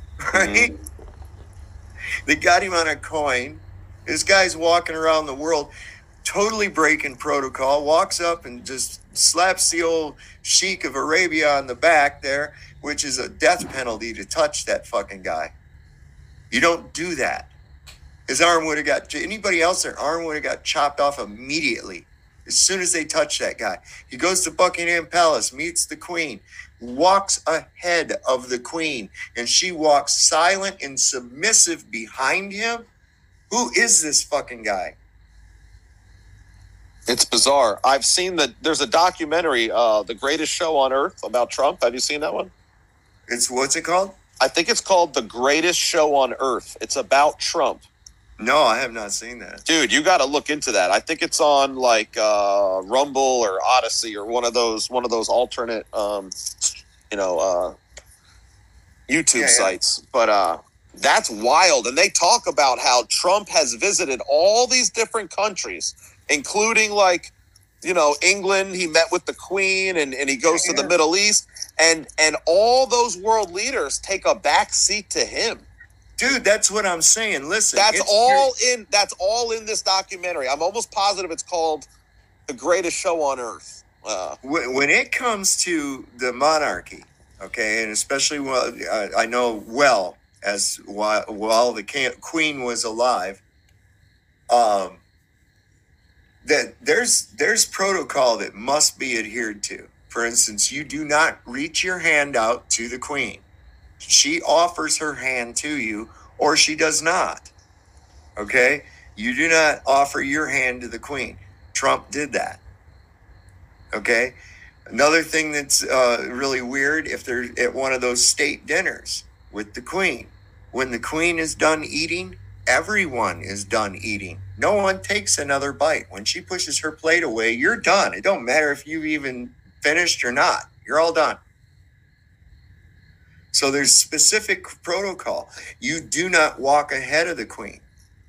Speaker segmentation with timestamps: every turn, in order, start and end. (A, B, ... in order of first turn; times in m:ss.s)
0:00.3-0:00.7 A
0:00.3-0:00.7 B
0:02.3-0:05.7 A
0:06.2-0:15.5 A
0:16.5-0:17.5 A
0:18.3-0:32.9 A
0:33.5-0:35.0 A
0:37.1-0:42.5 B
0:43.3-0:44.2 A
0:44.4-0:47.8 B
0:48.4-0:49.6 A
0:49.7-0:56.4 B
0:57.1-0:57.8 B
0:59.1-1:15.7 B
0:59.4-0:59.8 A
1:10.5-1:10.9 A
1:16.2-1:18.5 A
1:17.7-1:21.9 B
1:22.5-1:24.4 B
1:24.4-1:33.4 A
1:34.5-1:35.0 A
1:36.4-1:43.4 A
1:44.0-1:47.5 A
1:48.4-1:52.6 A
1:53.9-1:54.4 A
1:54.9-2:11.4 A
2:13.5-2:17.8 A